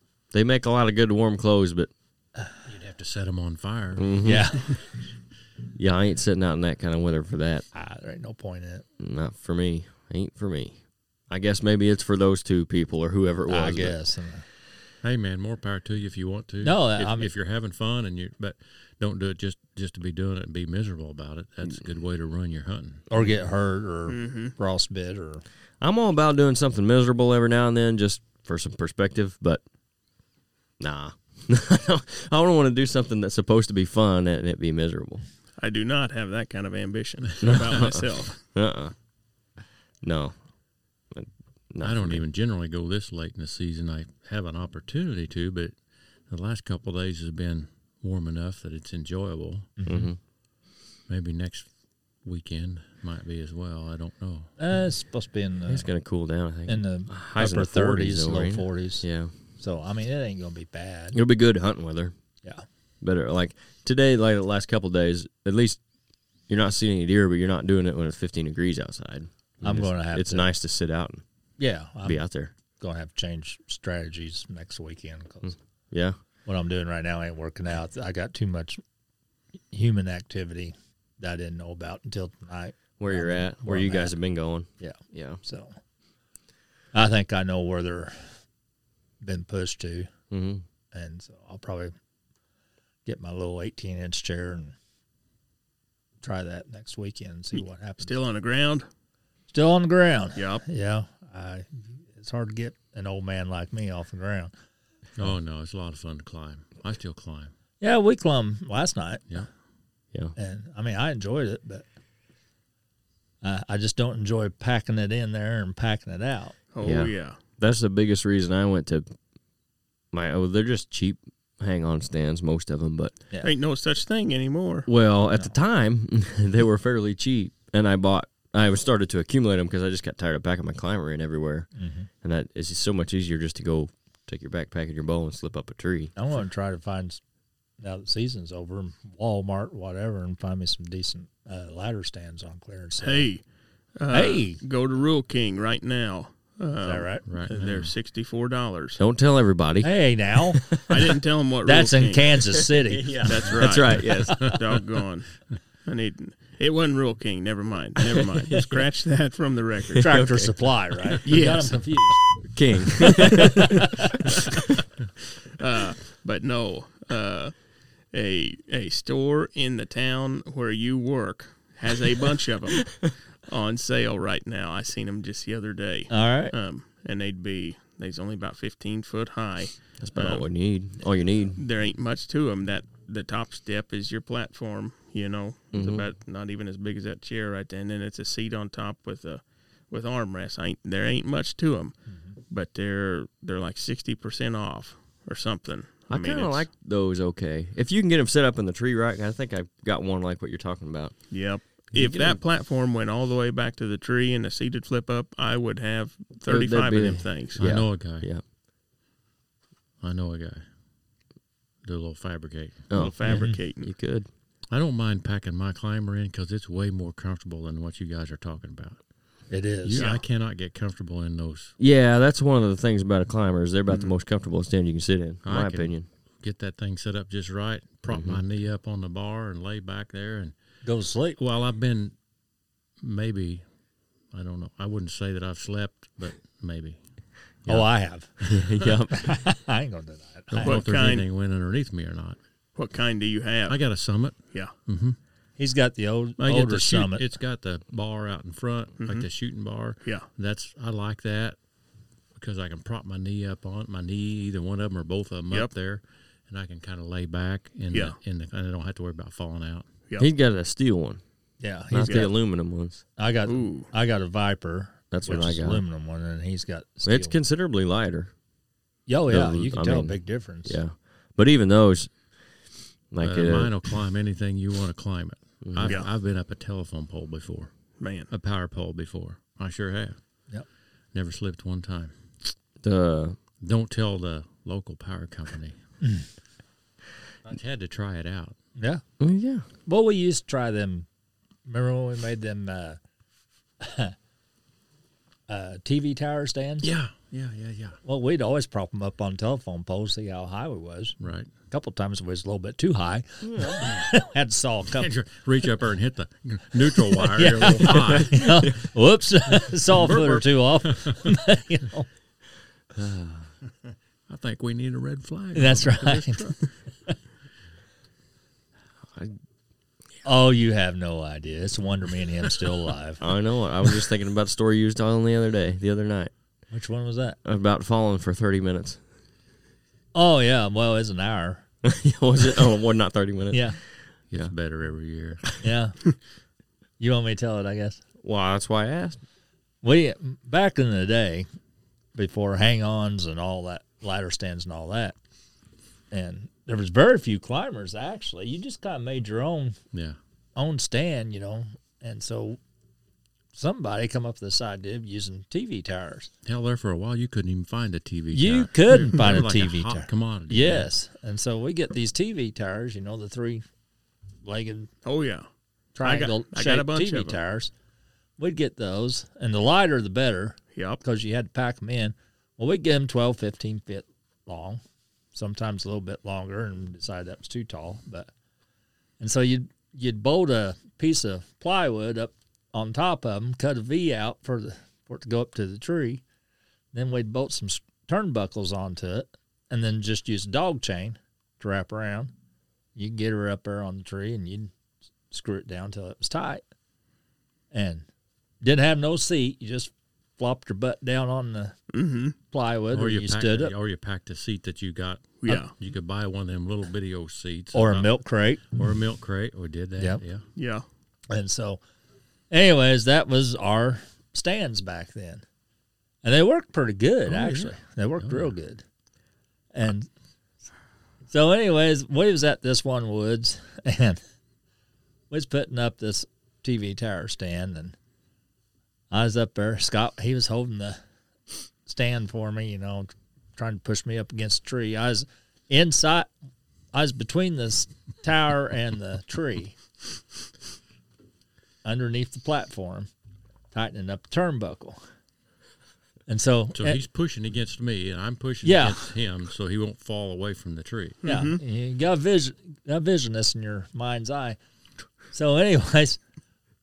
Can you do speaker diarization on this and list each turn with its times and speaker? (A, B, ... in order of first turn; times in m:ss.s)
0:00.3-0:01.9 A
0:02.6-0:04.2 B
0:04.0-0:04.5 A
0:04.2-0:04.8 C
0:05.7-0:07.6 A
0:07.7-0:08.8 C
0:09.0-0:10.8 A
0:11.3-0:14.0 A
0:13.5-0:14.4 C
0:15.0-0:23.0 B
0:16.6-0:17.3 C
0:23.1-0:25.4 C
0:24.1-0:24.5 D
0:25.8-0:29.6 A
0:30.8-0:35.2 A
0:35.6-0:38.4 D
0:37.4-0:38.9 A
0:40.0-0:40.4 A
0:41.1-0:42.2 A
0:41.8-0:50.1 B
0:49.8-0:50.1 C
0:49.8-0:50.2 A
0:51.1-0:51.7 B
0:52.2-0:54.5 B
0:54.6-0:55.9 C
0:55.7-0:59.3 A
0:56.7-0:59.0 C
0:59.6-1:01.2 C
1:01.1-1:02.1 A
1:03.0-1:05.8 A
1:06.5-1:11.2 A
1:09.6-1:10.4 C
1:11.6-1:12.2 C
1:12.0-1:12.5 A
1:12.8-1:15.6 C
1:15.4-1:16.2 A
1:16.4-1:18.8 C
1:19.7-1:24.1 C
1:23.0-1:25.4 A
1:24.8-1:25.8 C
1:26.9-1:28.2 C
1:29.2-1:30.1 C
1:30.3-1:30.6 A
1:30.9-1:31.9 C
1:33.0-1:34.7 C
1:36.2-1:38.2 C
1:38.0-1:38.9 D
1:39.5-1:44.5 C
1:40.4-1:40.6 D
1:45.2-1:47.5 B
1:47.8-1:49.4 C
1:50.4-1:51.8 C
1:53.4-1:56.6 C
1:56.7-1:57.4 D
1:56.8-1:59.1 A
2:00.1-2:03.2 A
2:03.4-2:04.9 D
2:04.9-2:11.7 A
2:11.8-2:12.1 C
2:12.2-2:16.1 A
2:16.2-2:17.2 C
2:17.8-2:23.3 C
2:23.0-2:23.4 D
2:24.0-2:29.0 D
2:24.1-2:24.6 C
2:26.8-2:27.2 C
2:27.2-2:27.9 B
2:29.0-2:31.2 A
2:29.8-2:30.6 C
2:30.9-2:32.4 D
2:31.6-2:33.3 C
2:32.7-2:34.6 A
2:33.2-2:40.2 D
2:38.1-2:38.8 A
2:39.9-2:41.1 A
2:40.0-2:42.3 C
2:41.2-2:41.8 D
2:42.5-2:43.9 A
2:43.2-2:43.9 C
2:45.6-2:47.6 D
2:48.1-3:00.4 D
2:56.1-2:56.5 C
3:00.0-3:01.6 A
3:01.6-3:12.0 D
3:05.7-3:06.1 A
3:12.5-3:16.7 D
3:16.1-3:21.4 A
3:21.3-3:27.6 D
3:21.9-3:22.4 A
3:26.5-3:28.4 A
3:27.6-3:28.3 B
3:30.0-3:30.6 B
3:31.8-3:32.9 B
3:32.9-3:34.3 A
3:32.9-3:33.9 D
3:33.2-3:33.6 C
3:34.7-3:39.0 B
3:39.5-3:40.1 C
3:39.8-3:41.7 B
3:39.9-3:40.2 D
3:41.8-3:46.1 A
3:45.4-3:50.5 B
3:48.1-3:48.4 A
3:50.8-3:51.4 C
3:51.4-3:52.1 B
3:53.0-3:53.6 B
3:54.3-3:57.0 B
3:57.6-3:57.9 B
3:57.6-3:58.4 C
3:58.4-3:58.9 B
3:58.4-3:59.4 A
3:59.1-4:00.8 C
4:00.5-4:02.4 B
4:00.6-4:01.2 D
4:02.7-4:03.8 D
4:03.7-4:05.2 B
4:05.6-4:07.2 C
4:06.4-4:11.6 B
4:09.0-4:09.3 D
4:12.3-4:19.9 B
4:17.9-4:18.2 D
4:20.2-4:21.2 A
4:21.6-4:22.3 C
4:21.9-4:23.0 A
4:23.2-4:27.4 C
4:23.4-4:23.9 D
4:25.1-4:25.8 A
4:27.0-4:28.3 A
4:29.1-4:30.8 C
4:29.3-4:32.1 A
4:33.1-4:33.7 A
4:33.2-4:37.7 B
4:35.6-4:36.0 A
4:38.0-4:38.3 D
4:38.3-4:40.2 B
4:41.1-4:42.1 B
4:42.8-4:43.4 A
4:43.6-4:45.8 B
4:47.4-4:48.6 B
4:48.8-4:49.0 C
4:49.2-4:49.6 A
4:49.8-4:51.1 C
4:51.6-4:53.0 C
4:53.8-4:54.1 C
4:55.5-4:56.9 C
4:56.8-4:58.0 B
4:58.0-5:01.2 C
5:01.2-5:01.5 B
5:01.7-5:05.1 C
5:03.4-5:03.9 A
5:05.0-5:08.5 B
5:07.2-5:12.1 C
5:08.0-5:08.7 A
5:09.9-5:11.2 B
5:12.9-5:13.5 A
5:14.3-5:16.6 B
5:15.5-5:16.6 C
5:19.1-5:19.4 A
5:20.2-5:23.2 C
5:23.2-5:26.3 A
5:26.7-5:27.4 C
5:27.4-5:29.0 A
5:30.1-5:31.6 C
5:31.8-5:34.5 A
5:33.5-5:33.8 C
5:34.3-5:35.5 B
5:35.6-5:36.0 C
5:37.0-5:38.0 C
5:38.2-5:39.2 A
5:39.8-5:41.5 C
5:42.1-5:45.2 C
5:46.1-5:49.8 C
5:50.6-5:52.6 C
5:53.5-5:56.3 C
5:56.4-6:00.9 B
5:58.3-6:03.6 C
6:04.4-6:04.9 C
6:05.0-6:05.5 D
6:06.0-6:07.7 C
6:06.0-6:07.4 D
6:08.4-6:14.8 C
6:10.8-6:11.0 D
6:15.3-6:18.3 C
6:19.2-6:26.2 C
6:26.9-6:32.3 C
6:33.0-6:34.7 C
6:35.3-6:36.6 C
6:37.7-6:38.0 C
6:38.6-6:41.8 C
6:41.9-6:42.3 D
6:42.5-6:43.7 C
6:42.9-6:48.1 B
6:45.4-6:45.7 D
6:47.7-6:48.7 C
6:48.7-6:50.4 B
6:50.6-6:50.8 D
6:51.3-6:51.8 C
6:52.5-6:55.4 C
6:56.2-6:58.8 C
6:57.2-6:58.5 B
6:59.7-7:00.1 C
7:01.3-7:04.2 C
7:05.3-7:07.9 C
7:09.1-7:11.0 C
7:11.8-7:16.3 C
7:16.9-7:19.8 C
7:21.8-7:23.1 C
7:23.7-7:25.0 C
7:26.3-7:27.0 C
7:26.7-7:31.2 B
7:28.6-7:29.1 C
7:31.2-7:31.6 D
7:31.2-7:34.6 C
7:35.3-7:36.2 C